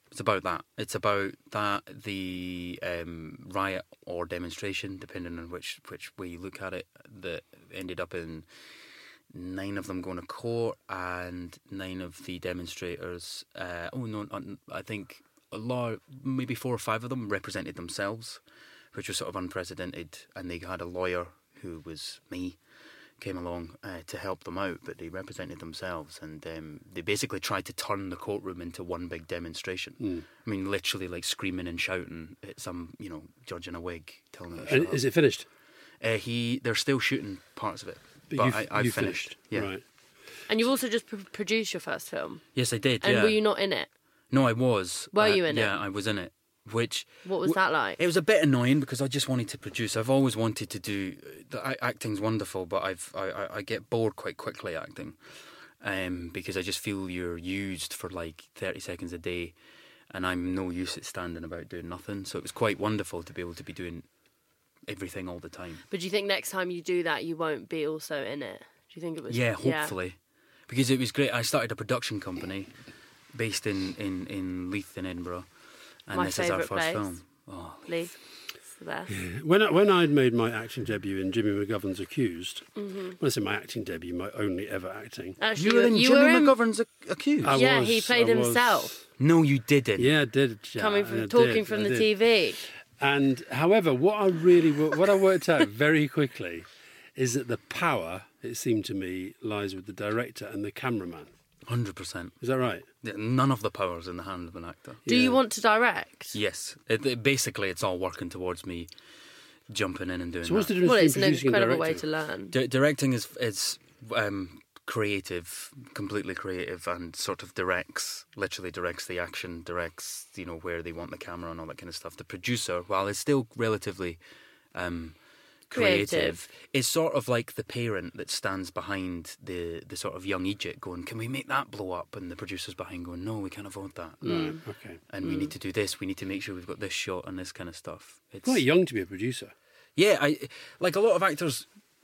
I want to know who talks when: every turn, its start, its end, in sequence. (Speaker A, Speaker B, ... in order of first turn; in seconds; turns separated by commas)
Speaker A: 0.1-8.4, Speaker A: 9.3-18.4, Speaker A: 18.9-22.6, Speaker A: 23.2-35.0, Speaker B: 30.0-30.2, Speaker B: 34.6-35.5, Speaker A: 36.0-39.7, Speaker B: 38.3-39.8, Speaker C: 40.5-42.4, Speaker A: 42.5-43.4, Speaker C: 43.0-43.9, Speaker A: 44.3-55.2, Speaker C: 45.1-45.7, Speaker C: 47.2-48.0, Speaker A: 55.8-59.5, Speaker A: 60.1-64.0, Speaker A: 64.9-65.8, Speaker C: 65.9-69.9, Speaker A: 69.3-70.2, Speaker A: 70.7-72.7, Speaker A: 73.3-75.5, Speaker A: 76.1-78.0, Speaker C: 76.1-77.1, Speaker C: 77.9-78.1, Speaker C: 78.8-79.1, Speaker B: 79.1-82.7, Speaker C: 82.8-83.2, Speaker B: 83.2-85.4, Speaker C: 85.4-86.5, Speaker A: 85.5-87.6, Speaker B: 87.4-89.0, Speaker C: 87.5-88.9, Speaker A: 89.2-90.1, Speaker B: 90.0-92.1, Speaker C: 90.8-92.6, Speaker B: 93.0-101.3, Speaker A: 101.7-102.4, Speaker B: 102.4-102.8, Speaker A: 103.0-105.0, Speaker B: 105.0-105.4, Speaker C: 105.1-106.3, Speaker A: 106.3-108.9, Speaker A: 109.7-110.7, Speaker B: 110.4-112.0, Speaker C: 110.8-112.5, Speaker A: 112.5-124.2, Speaker A: 124.7-125.2, Speaker A: 125.7-134.6, Speaker C: 125.7-126.3, Speaker B: 134.2-135.0, Speaker A: 135.1-138.6, Speaker C: 135.2-135.5, Speaker B: 138.4-139.5, Speaker A: 139.9-141.7